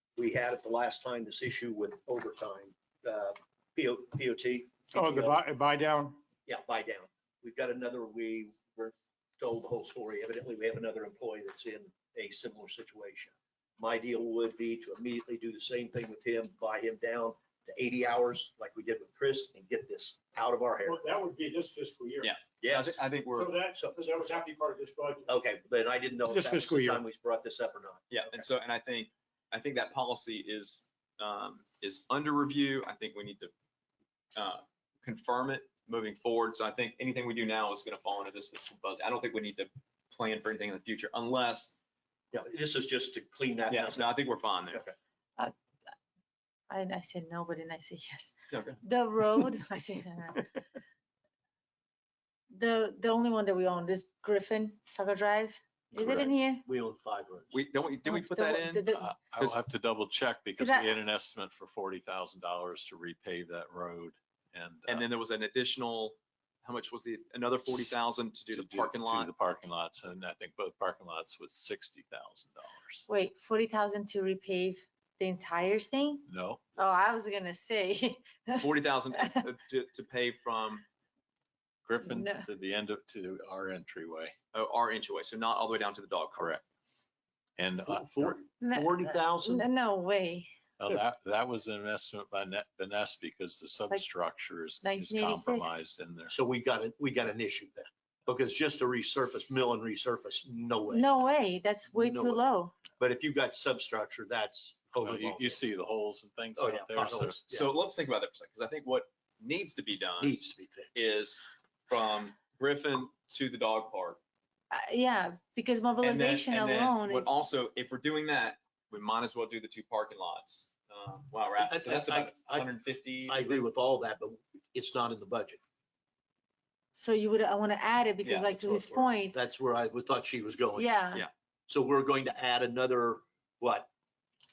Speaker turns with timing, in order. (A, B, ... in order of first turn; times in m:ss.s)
0:00.2-0:05.4 A
0:04.9-0:06.2 B
0:06.5-0:21.0 A
0:20.9-0:22.3 B
0:22.2-0:23.6 C
0:22.6-0:23.0 A
0:23.4-0:25.3 B
0:25.3-0:28.4 A
0:26.3-0:27.0 B
0:28.1-0:33.5 C
0:34.4-0:41.8 C
0:42.3-0:44.9 A
0:43.7-0:44.8 C
0:46.7-0:50.6 D
0:48.5-0:48.8 C
0:52.5-0:56.7 D
0:56.0-0:57.6 A
0:57.5-0:59.6 C
0:58.1-0:59.1 D
0:58.9-1:05.1 E
1:00.6-1:01.0 D
1:04.9-1:09.3 C
1:08.5-1:13.1 E
1:13.1-1:19.4 D
1:16.3-1:16.7 E
1:18.6-1:20.8 C
1:21.8-1:24.3 E
1:22.1-1:22.5 D
1:24.5-1:26.6 C
1:26.4-1:26.6 E
1:27.6-1:28.4 E
1:27.8-1:29.7 A
1:28.6-1:30.5 D
1:30.8-1:36.4 E
1:34.8-1:35.7 D
1:36.3-1:41.3 A
1:40.9-1:42.9 D
1:41.9-1:45.6 A
1:45.0-1:47.4 E
1:46.6-1:47.7 A
1:47.5-1:50.4 C
1:50.2-1:51.0 A
1:51.0-1:54.2 C
1:54.7-1:57.3 D
1:56.0-2:03.6 C
2:01.6-2:02.7 A
2:03.3-2:05.6 A
2:06.9-2:09.4 D
2:08.2-2:08.6 C
2:08.5-2:10.9 A
2:10.8-2:11.3 D
2:11.7-2:13.9 A